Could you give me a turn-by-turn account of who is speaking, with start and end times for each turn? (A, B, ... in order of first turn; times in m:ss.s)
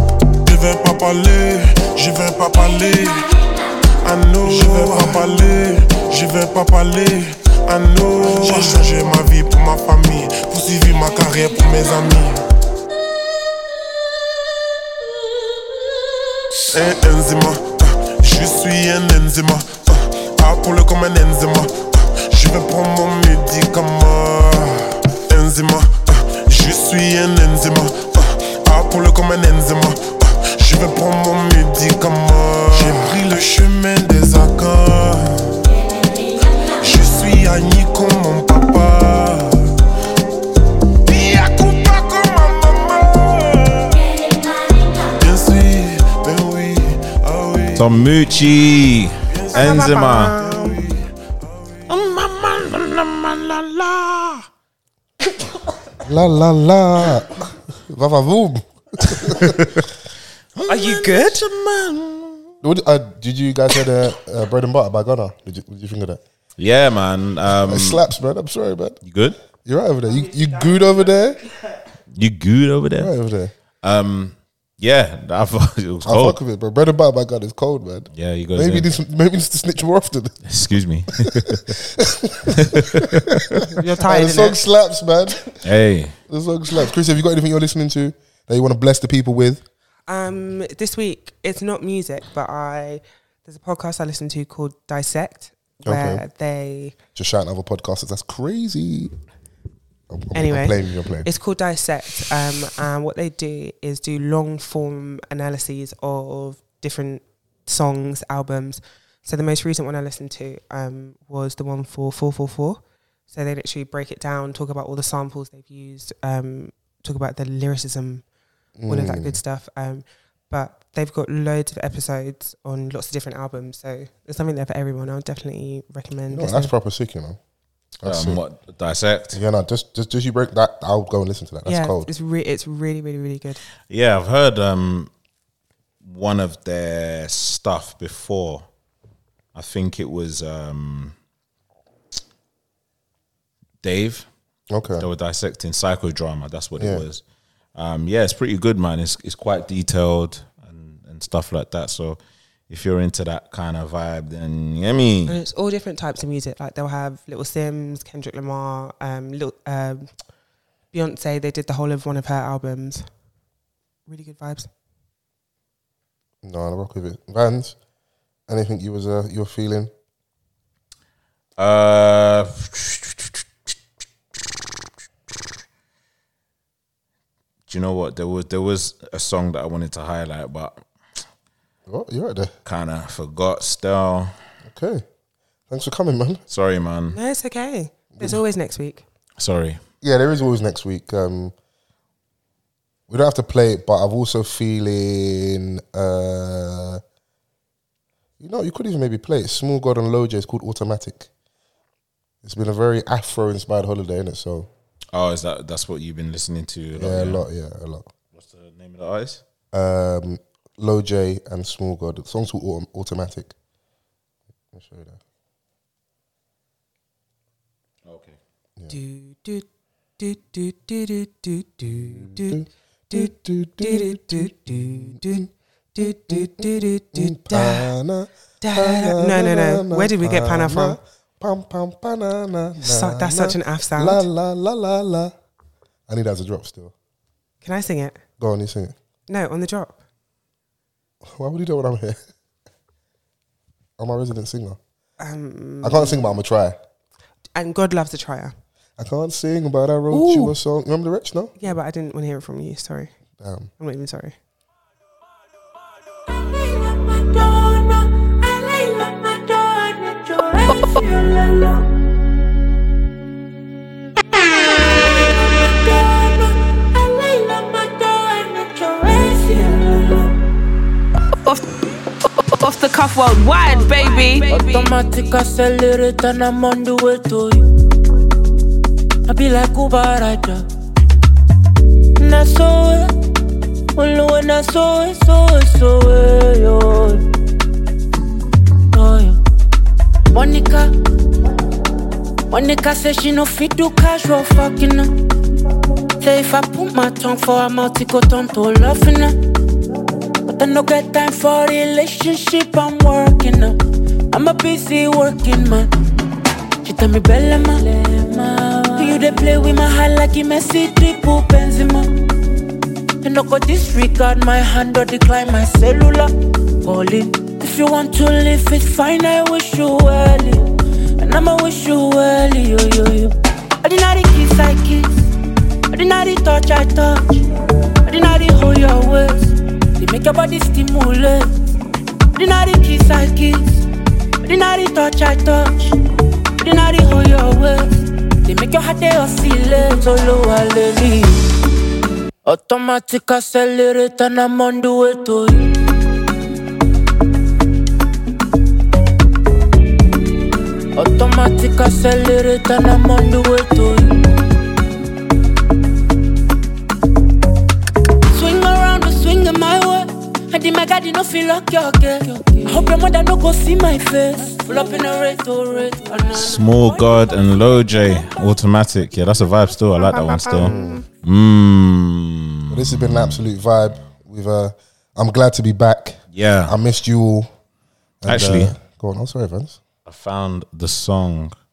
0:00.4-0:03.3 A
0:04.0-0:12.4 A
0:08.5-0:08.8 B
0:16.7-0:35.5 A
0:36.8-0:39.7 A
0:41.0-0:44.0 A
0:45.1-0:48.0 A
0:47.8-0:50.3 C
0:49.3-0:51.9 A
0:49.5-0:50.8 B
0:51.9-0:54.4 C
0:56.0-0:59.8 D
0:59.0-0:59.9 C
1:00.6-1:02.5 C
1:00.7-1:01.4 B
1:02.6-1:06.2 D
1:06.6-1:08.0 C
1:07.6-1:09.0 D
1:09.0-1:09.4 C
1:09.6-1:11.5 D
1:12.1-1:13.1 C
1:13.0-1:13.5 D
1:13.8-1:16.4 C
1:16.0-1:20.4 D
1:18.1-1:18.9 C
1:20.4-1:21.8 C
1:21.3-1:25.5 D
1:22.5-1:23.6 C
1:23.7-1:24.6 B
1:25.6-1:26.2 C
1:26.3-1:29.6 D
1:30.1-1:36.9 B
1:35.8-1:36.2 D
1:37.1-1:39.1 D
1:40.1-1:41.3 D
1:40.3-1:58.2 B
1:58.8-1:59.4 D
1:58.9-2:06.7 B
2:06.3-2:07.4 D
2:08.0-2:08.4 D
2:08.0-2:09.4 C
2:09.3-2:12.1 D
2:11.6-2:13.6 B
2:13.9-2:15.1 C
2:16.0-2:18.7 C
2:19.6-2:21.1 C
2:23.8-2:24.3 C
2:24.7-2:25.1 D
2:25.0-2:27.2 C
2:26.8-2:27.0 D
2:27.7-2:32.2 C
2:32.7-2:35.4 C
2:35.3-2:40.1 B
2:40.9-2:43.0 B
2:44.1-2:44.7 B
2:46.4-2:47.8 D
2:48.5-2:49.9 D
2:51.6-2:53.4 C
2:57.7-3:00.8 C
3:01.9-3:02.5 D
3:02.6-3:04.3 C
3:04.6-3:05.0 D
3:05.7-3:06.4 D
3:06.5-3:07.2 C
3:07.1-3:09.0 B
3:08.1-3:08.4 D
3:09.4-3:09.8 C
3:10.0-3:11.5 D
3:13.1-3:17.0 D
3:18.4-3:21.3 D
3:22.4-3:24.7 D
3:25.1-3:27.4 C
3:27.0-3:28.1 D
3:28.3-3:29.4 C
3:29.7-3:33.5 D
3:34.7-3:35.2 D
3:38.0-3:38.4 C
3:38.9-3:39.7 B
3:40.2-3:47.9 B
3:41.9-3:45.5 D
3:46.0-3:55.3 D
3:48.6-3:51.0 B
3:52.8-3:54.3 B
3:56.1-3:56.9 D
3:57.6-3:58.2 B
3:58.4-3:58.9 D
3:59.3-4:00.0 B
4:01.2-4:02.2 D
4:04.0-4:04.8 D
4:05.2-4:06.4 B
4:05.8-4:06.8 D
4:07.6-4:08.6 B
4:09.0-4:11.5 D
4:10.1-4:10.6 B
4:11.6-4:13.1 B
4:13.4-4:13.7 D
4:13.8-4:14.3 B
4:16.3-4:21.9 E
4:24.9-4:30.4 E
4:32.4-4:34.8 F
4:34.5-4:37.7 E
4:39.3-4:40.6 E
4:42.2-4:43.1 E
4:44.0-4:47.3 E
4:48.9-4:49.4 E
4:50.3-4:50.9 E
4:52.5-4:55.1 E
4:56.2-4:59.4 E
5:00.4-5:03.8 E
5:04.3-5:05.9 E
5:06.8-5:12.1 E
5:13.2-5:25.3 E
5:25.9-5:27.3 E
5:28.0-5:31.5 E
5:32.3-5:33.8 E
5:34.4-5:35.9 E
5:36.6-5:37.9 E
5:38.4-5:41.5 E
5:42.4-5:45.7 E
5:51.0-5:54.2 E
5:58.3-6:08.3 E
6:06.3-6:14.1 C
6:10.6-6:11.0 D
6:12.7-6:17.5 D
6:16.3-6:16.8 C
6:18.2-6:19.8 D
6:18.2-6:18.7 C
6:20.0-6:21.5 C